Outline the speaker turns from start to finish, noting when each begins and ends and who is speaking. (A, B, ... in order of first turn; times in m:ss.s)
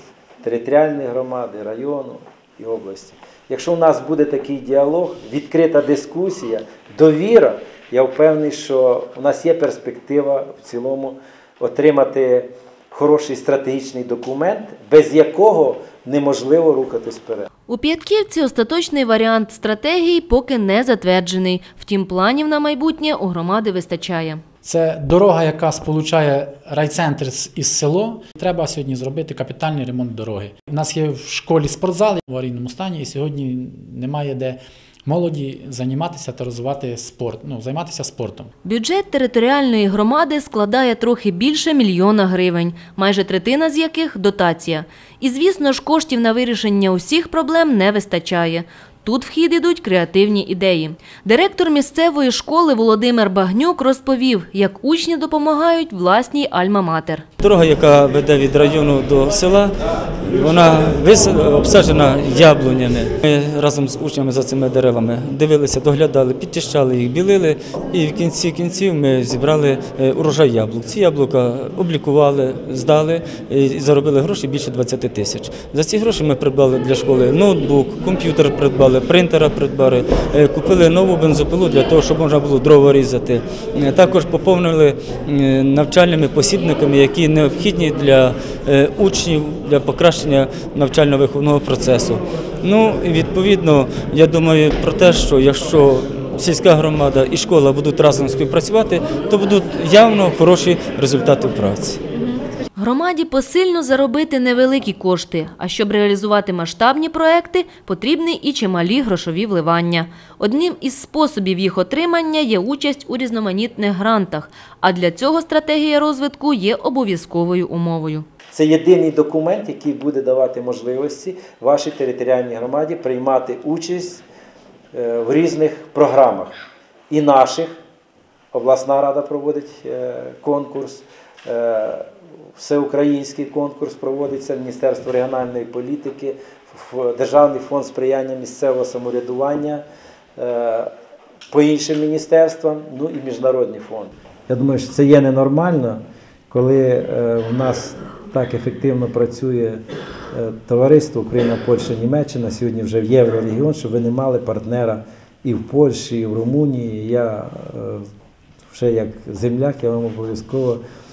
0:00.4-0:17.4 A
0:17.7-0:24.4 B
0:24.6-0:38.5 C
0:38.6-0:57.2 B
0:57.4-0:59.7 D
1:00.3-1:42.0 D
1:42.2-1:58.2 B
1:58.5-2:04.2 A
2:04.9-2:06.5 A
2:07.1-2:07.7 A
2:08.5-2:19.8 A
2:20.4-2:20.9 A
2:21.5-2:29.8 A
2:30.3-2:38.0 A
2:38.7-2:40.8 A